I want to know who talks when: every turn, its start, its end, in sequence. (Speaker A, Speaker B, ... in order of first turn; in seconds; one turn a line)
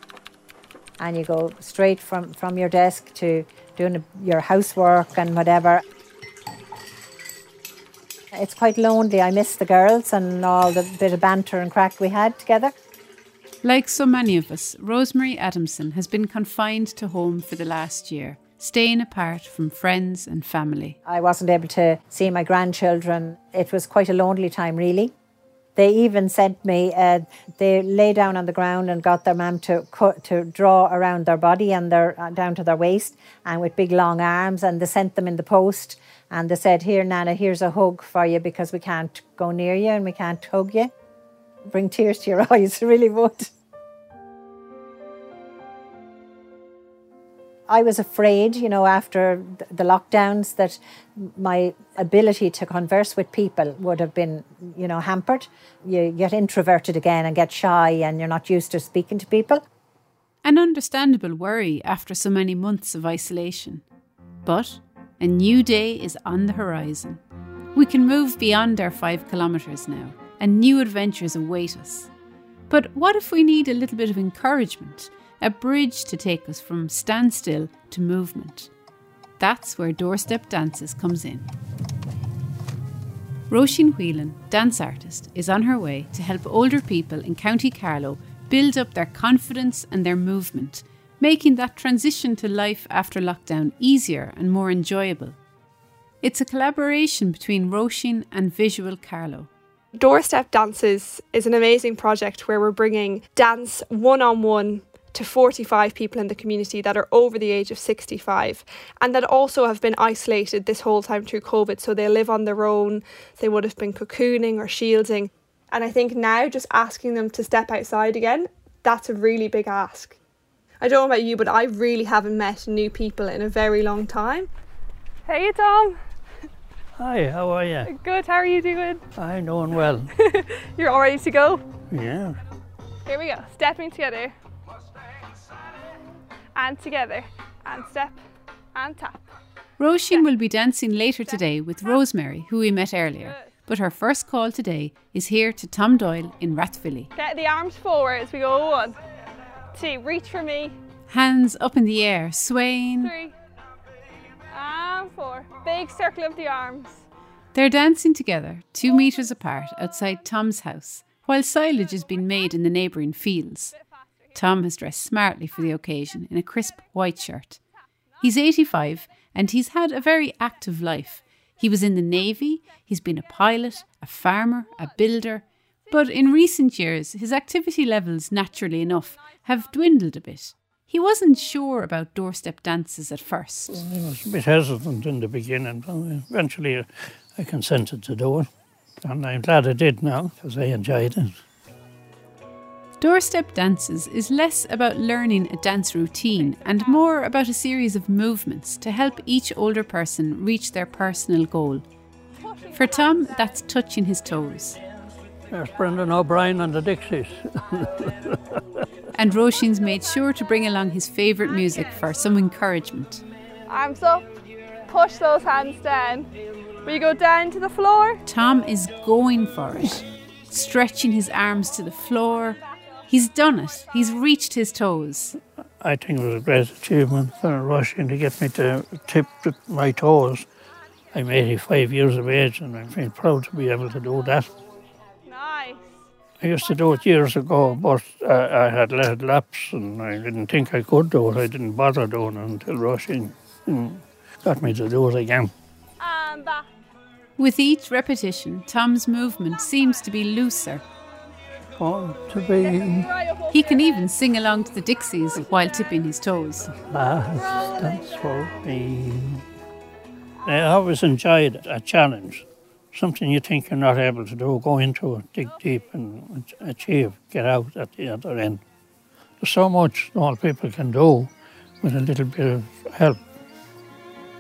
Speaker A: 1.0-5.8
Speaker A: 8.3-12.7
Speaker B: 13.6-21.0
Speaker A: 21.1-25.1
Speaker A: 25.8-40.9
Speaker A: 41.7-43.5
Speaker A: 47.7-59.6
Speaker B: 60.4-63.8
Speaker B: 64.5-67.2
Speaker B: 67.7-72.1
Speaker B: 72.7-78.7
Speaker B: 79.4-81.5
Speaker B: 83.5-95.4
Speaker B: 96.2-99.5
Speaker C: 100.0-120.2
Speaker C: 120.8-124.5
Speaker C: 125.3-126.0
Speaker D: 127.0-127.9
Speaker C: 127.8-129.0
Speaker D: 129.2-130.1
Speaker C: 130.2-131.6
Speaker D: 131.9-132.4
Speaker C: 133.1-134.3
Speaker C: 136.6-138.2
Speaker C: 138.8-139.3
Speaker B: 139.8-147.1
Speaker C: 147.2-149.0
Speaker C: 149.7-150.8
Speaker B: 151.1-153.1
Speaker C: 153.0-153.3
Speaker C: 154.5-157.0
Speaker B: 157.5-163.8
Speaker B: 164.3-167.6
Speaker B: 168.2-183.7
Speaker D: 183.7-188.5
Speaker D: 189.0-191.4
Speaker B: 193.0-201.8
Speaker C: 202.4-203.5
Speaker B: 202.7-204.8
Speaker D: 205.5-208.6
Speaker B: 209.1-213.2
Speaker C: 211.7-212.0
Speaker C: 213.7-214.3
Speaker C: 214.9-216.3
Speaker C: 216.8-218.2
Speaker B: 218.2-225.4
Speaker D: 225.8-230.5
Speaker D: 231.1-234.5
Speaker C: 235.2-235.8
Speaker D: 236.4-245.5
Speaker C: 246.0-246.7
Speaker B: 247.4-250.8
Speaker D: 251.8-253.1
Speaker C: 252.6-253.9
Speaker B: 253.5-256.7
Speaker D: 256.9-259.4
Speaker C: 257.3-258.0
Speaker D: 260.4-268.6
Speaker D: 269.4-273.2